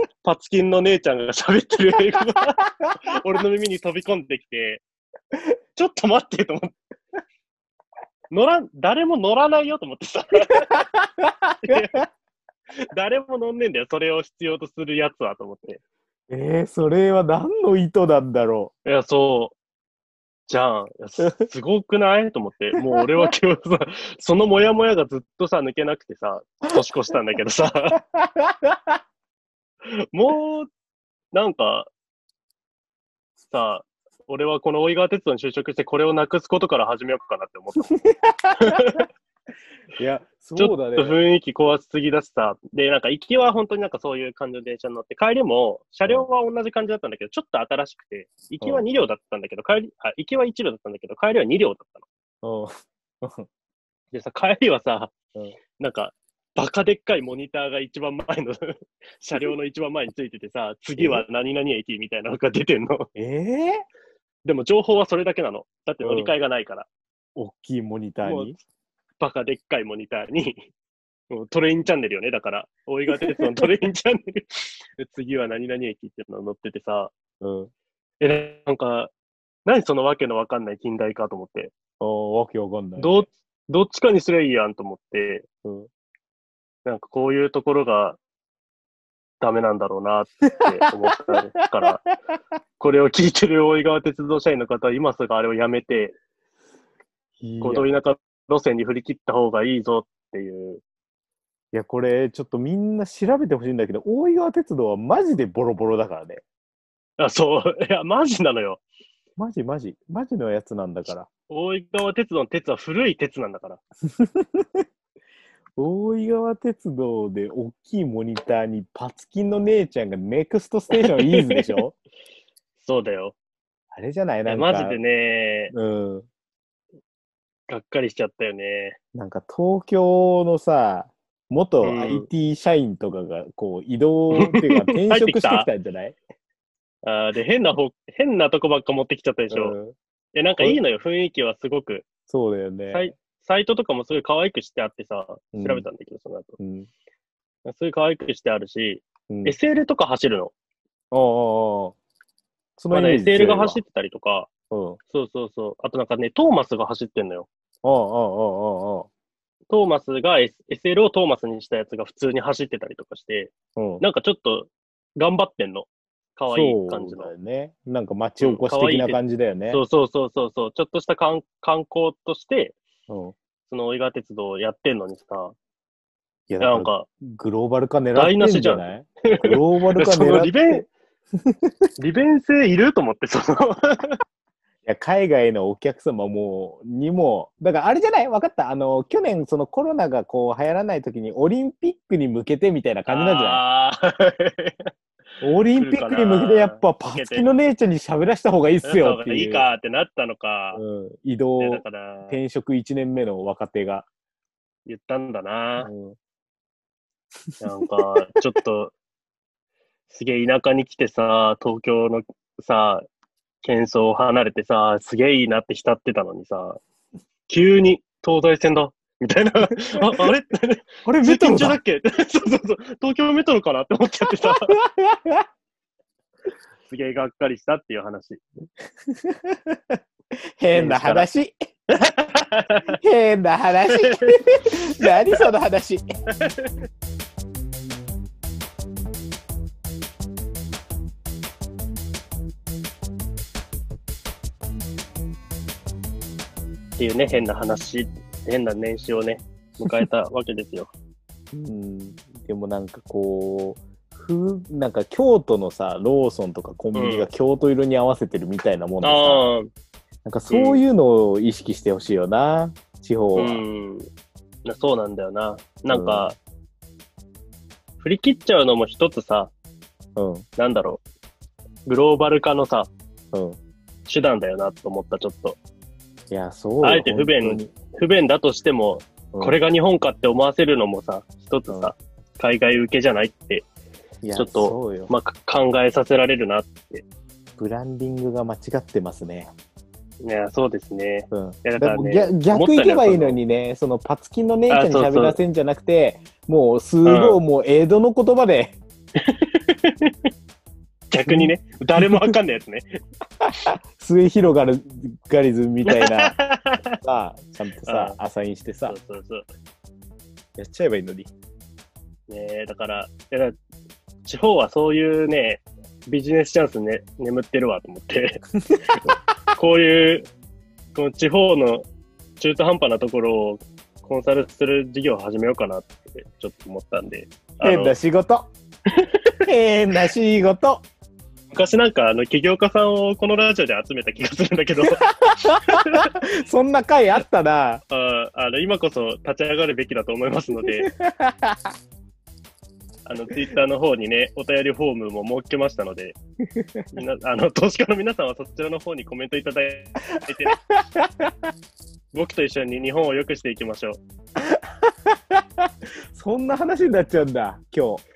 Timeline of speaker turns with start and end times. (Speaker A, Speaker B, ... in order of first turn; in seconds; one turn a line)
Speaker A: 0.2-4.8
Speaker A: 5.8-6.8
Speaker A: 8.3-10.8
Speaker B: 11.2-11.8
Speaker A: 11.6-12.1
Speaker A: 12.9-15.8
Speaker B: 16.3-18.7
Speaker A: 18.9-19.6
Speaker A: 20.5-28.0
Speaker B: 22.9-23.3
Speaker B: 28.1-28.7
Speaker A: 30.1-30.7
Speaker A: 31.3-31.9
Speaker A: 33.5-37.9
Speaker B: 37.9-38.7
Speaker A: 38.6-39.1
Speaker B: 40.0-41.2
Speaker A: 40.6-52.1
Speaker B: 52.4-53.5
Speaker A: 54.1-55.1
Speaker A: 55.8-63.1
Speaker B: 61.0-61.2
Speaker B: 63.2-63.8
Speaker A: 64.5-66.9
Speaker B: 66.0-66.3
Speaker B: 67.4-68.6
Speaker A: 68.2-68.5
Speaker A: 69.2-70.7
Speaker A: 71.3-77.1
Speaker B: 73.2-73.5
Speaker B: 77.4-77.7
Speaker A: 78.2-79.1
Speaker A: 79.7-81.7
Speaker B: 82.0-83.2
Speaker A: 83.0-85.5
Speaker A: 86.8-88.2
Speaker A: 89.4-92.0
Speaker A: 92.8-96.2
Speaker B: 97.4-97.9
Speaker A: 97.6-100.8
Speaker B: 101.7-106.4
Speaker A: 107.2-108.8
Speaker B: 109.4-111.3
Speaker A: 111.5-113.8
Speaker B: 114.2-114.8
Speaker B: 115.8-122.0
Speaker A: 121.0-121.8
Speaker A: 122.8-123.4
Speaker B: 123.9-125.0
Speaker A: 124.5-125.7
Speaker B: 125.7-126.3
Speaker A: 127.7-129.0
Speaker B: 129.2-136.2
Speaker A: 131.8-132.3
Speaker A: 134.4-135.7
Speaker A: 137.0-139.8
Speaker B: 139.5-140.0
Speaker A: 140.3-142.1
Speaker B: 142.3-143.1
Speaker A: 142.9-146.6
Speaker B: 145.5-145.9
Speaker B: 146.6-146.9
Speaker A: 147.7-150.5
Speaker B: 149.3-149.6
Speaker B: 151.1-152.0
Speaker B: 152.8-153.8
Speaker A: 152.9-154.5
Speaker B: 154.7-155.0
Speaker A: 155.1-157.5
Speaker B: 157.8-159.1
Speaker A: 159.7-167.3
Speaker B: 163.8-164.0
Speaker B: 166.5-169.8
Speaker A: 168.4-172.8
Speaker B: 173.1-173.3
Speaker A: 173.7-175.6
Speaker B: 176.5-180.9
Speaker A: 176.6-177.1
Speaker A: 178.2-180.9
Speaker A: 182.0-184.2
Speaker B: 184.8-193.6
Speaker A: 193.1-194.9
Speaker B: 195.4-199.7
Speaker A: 195.8-197.5
Speaker A: 198.8-200.8
Speaker B: 200.7-204.1
Speaker A: 201.6-202.4
Speaker A: 204.9-205.9
Speaker B: 205.8-206.2
Speaker A: 207.6-208.9
Speaker A: 210.1-213.1
Speaker A: 213.6-216.8
Speaker A: 217.5-224.7
Speaker B: 221.1-221.8
Speaker B: 224.7-225.4
Speaker A: 226.9-228.4
Speaker B: 229.3-230.0
Speaker B: 230.6-231.5
Speaker A: 230.7-231.3
Speaker A: 232.0-232.9
Speaker B: 233.0-236.0
Speaker A: 233.9-234.3
Speaker A: 235.0-235.4
Speaker A: 236.4-236.7
Speaker A: 247.0-250.9
Speaker B: 251.5-259.5
Speaker A: 256.9-257.3
Speaker A: 259.0-259.7
Speaker B: 260.2-263.6
Speaker A: 260.5-260.8
Speaker A: 263.4-264.1
Speaker A: 264.6-266.4
Speaker B: 265.9-266.3
Speaker A: 268.0-269.5
Speaker B: 270.2-270.5
Speaker A: 270.6-271.0
Speaker A: 271.9-272.9
Speaker A: 274.1-275.6
Speaker B: 276.3-277.7
Speaker A: 276.8-283.7
Speaker B: 279.3-279.6
Speaker B: 284.2-285.1
Speaker A: 284.4-287.1
Speaker B: 287.6-289.5
Speaker A: 290.2-293.4
Speaker B: 291.3-298.8
Speaker A: 294.7-295.4
Speaker A: 297.1-297.4
Speaker A: 299.2-300.1
Speaker A: 301.1-302.9
Speaker B: 301.3-302.3
Speaker B: 304.0-306.4
Speaker A: 305.9-306.9
Speaker B: 307.0-309.0
Speaker A: 307.9-308.2
Speaker A: 308.9-309.5
Speaker B: 310.6-311.3
Speaker A: 312.3-313.6
Speaker A: 314.2-318.4
Speaker B: 318.7-319.1
Speaker A: 319.1-320.3
Speaker A: 320.9-321.9
Speaker A: 322.4-327.9
Speaker B: 327.6-328.5
Speaker B: 329.5-330.8
Speaker A: 331.5-336.1
Speaker B: 335.0-337.8
Speaker A: 337.9-340.9
Speaker B: 340.8-341.7
Speaker A: 343.1-346.2
Speaker A: 346.9-350.6
Speaker B: 350.5-351.3
Speaker A: 352.1-354.0
Speaker B: 354.5-355.4
Speaker B: 356.1-358.0